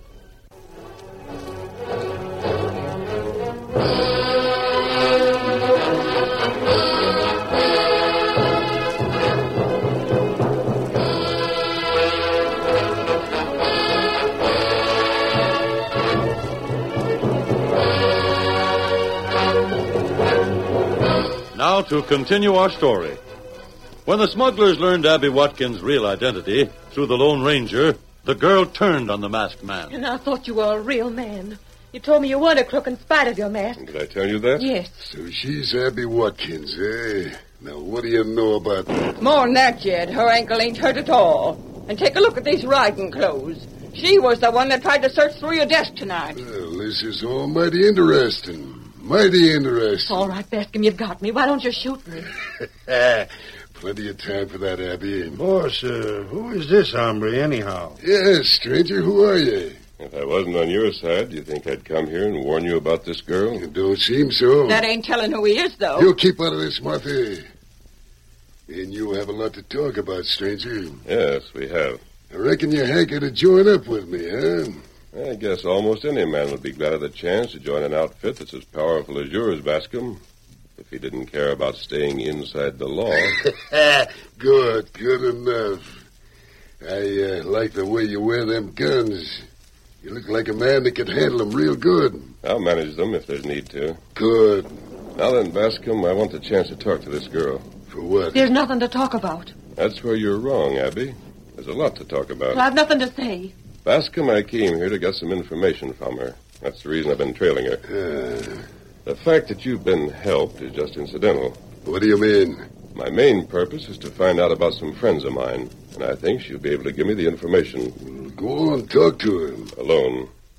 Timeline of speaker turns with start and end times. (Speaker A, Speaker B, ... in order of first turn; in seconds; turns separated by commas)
Speaker A: 21.5-23.2, Speaker A: 24.1-29.9, Speaker B: 29.9-33.9, Speaker C: 33.8-34.7, Speaker B: 34.6-35.1, Speaker D: 35.0-39.1, Speaker E: 39.2-46.4, Speaker D: 46.4-50.3, Speaker B: 50.1-52.3, Speaker D: 52.9-55.4, Speaker F: 55.4-58.0, Speaker D: 58.0-59.8, Speaker C: 60.0-63.7, Speaker D: 63.6-64.8, Speaker E: 64.7-66.1, Speaker D: 66.0-67.5, Speaker D: 68.7-71.0, Speaker C: 71.0-72.0, Speaker D: 72.3-74.8, Speaker C: 75.1-80.2, Speaker C: 80.8-83.4, Speaker D: 83.4-86.0, Speaker D: 86.8-89.5, Speaker D: 90.0-92.3, Speaker C: 92.4-94.0, Speaker D: 94.2-94.7, Speaker C: 95.2-97.7, Speaker D: 97.9-98.4, Speaker B: 98.3-99.5, Speaker C: 99.8-102.6, Speaker B: 102.5-103.5, Speaker C: 103.8-107.8, Speaker D: 107.9-108.6, Speaker C: 109.1-111.6, Speaker D: 111.8-112.6, Speaker C: 112.9-118.0, Speaker D: 118.0-119.7, Speaker C: 119.7-120.3